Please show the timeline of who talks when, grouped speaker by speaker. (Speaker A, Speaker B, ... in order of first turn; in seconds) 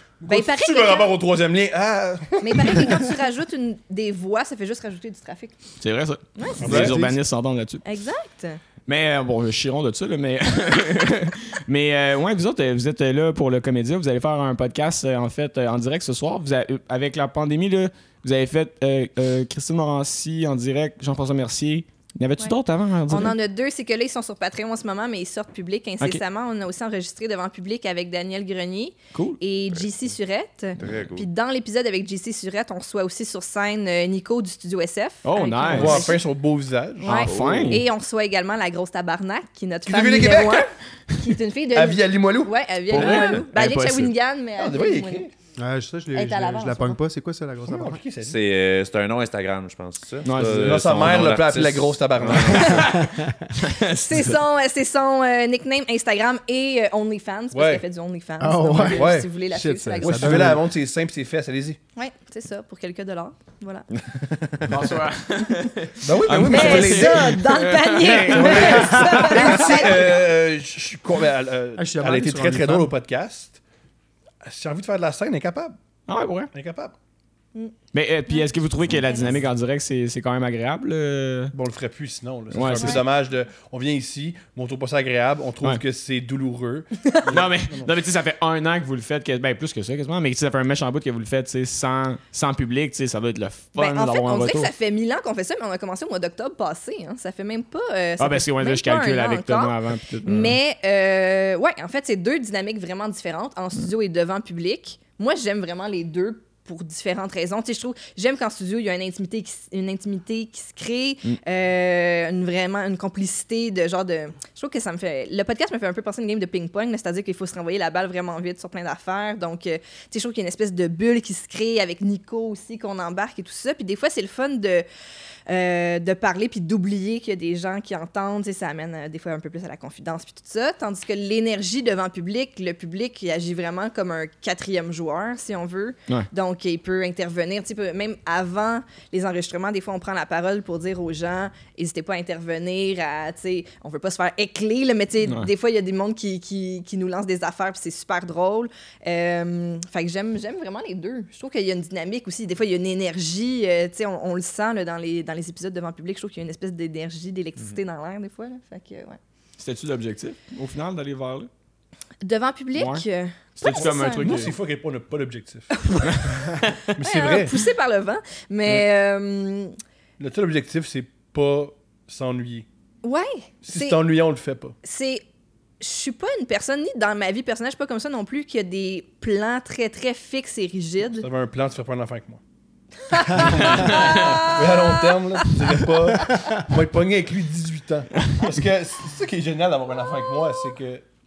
Speaker A: 0.2-3.1, 6.6-7.0, 35.7-37.2, 39.9-40.7, 41.7-43.4, 44.6-45.3, 47.6-48.4, 50.5-52.9, 57.5-57.9, 58.9-59.3, 60.0-61.8, 66.0-67.4, 68.3-73.6, 74.4-75.8, 76.5-77.0, 81.5-87.9, 163.7-166.4, 166.9-167.6, 170.2-172.7, 173.6-174.8, 181.2-182.4, 183.3-191.0
Speaker B: 0.3-1.1, 2.4-5.6, 6.4-6.9, 7.8-8.6, 23.1-36.2, 37.0-45.3, 46.1-47.0, 52.5-52.8, 54.0-60.5, 62.0-63.9, 66.4-70.3, 78.3-79.3, 82.8-83.0, 93.8-124.9, 125.5-159.2, 162.2-164.4, 165.8-166.2, 167.0-169.8, 173.0-174.0, 174.8-175.2, 175.8-181.3, 183.1-185.8
Speaker C: 5.8-7.8, 8.9-23.4, 29.1-29.4, 35.2-36.2, 37.0-37.9, 42.9-44.1, 50.2-51.3, 52.5-54.4, 64.7-69.1, 76.1-76.5, 77.9-81.5, 82.5-83.0, 87.2-94.7, 98.2-100.6, 145.2-145.5, 159.6-161.5, 162.7-163.1, 163.6-164.6, 166.1-166.8, 183.6-184.5
Speaker D: 6.6-7.2, 45.6-48.0, 53.0-53.5, 58.4-60.6, 68.3-70.0, 71.8-72.9
Speaker E: 30.8-31.3, 37.3-37.8, 48.2-53.0, 64.0-65.0